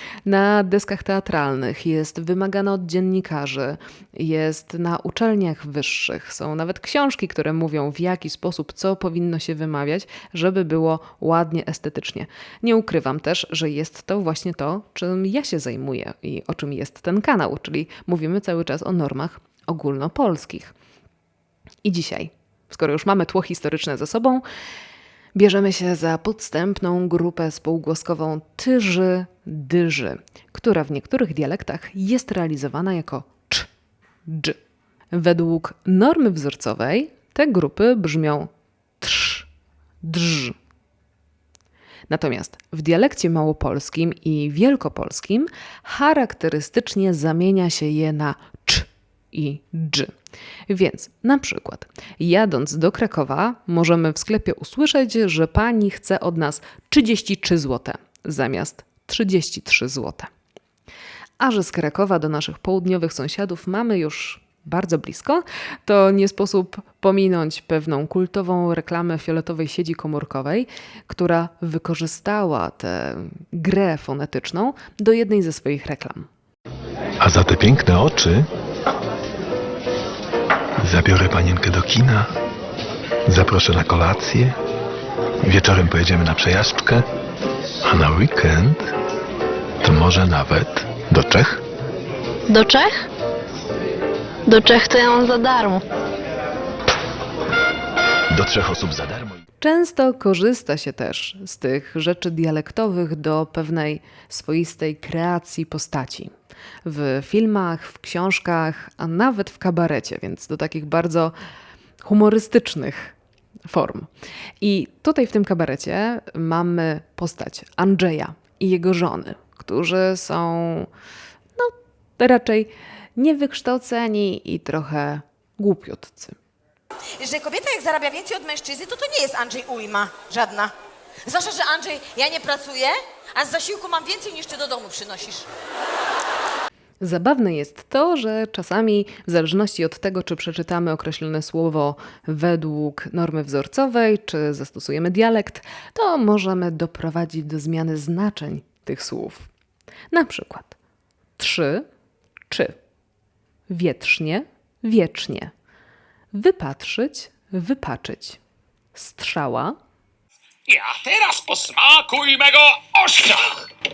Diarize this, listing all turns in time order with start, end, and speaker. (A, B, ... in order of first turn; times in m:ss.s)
0:00.3-0:20.7 A
0:21.8-0:24.4 A
0:25.4-0:33.7 A
0:34.3-0:34.6 A
0:35.1-0:38.5 A
0:39.0-0:39.5 A
0:40.0-0:40.6 A
0:42.1-0:50.1 A
0:50.7-1:00.3 A
1:01.4-1:16.3 A
1:17.2-1:18.5 B
1:20.8-1:22.3 B
1:23.3-1:24.6 B
1:25.4-1:27.0 B
1:27.8-1:28.9 B
1:29.8-1:31.6 B
1:32.5-1:33.1 C
1:34.5-1:35.8 C
1:38.3-1:39.4 B
1:39.6-1:46.3 A
1:46.8-1:51.3 A
1:52.0-1:53.1 A
1:53.7-1:54.1 A
1:54.6-2:00.9 A
2:01.6-2:06.4 A
2:07.2-2:10.7 D
2:11.2-2:15.5 D
2:17.0-2:29.5 A
2:30.1-2:30.8 A
2:31.4-2:31.9 A
2:32.5-2:32.8 A
2:33.7-2:35.5 A
2:36.3-2:38.4 A
2:39.0-2:39.8 A
2:40.7-2:43.7 E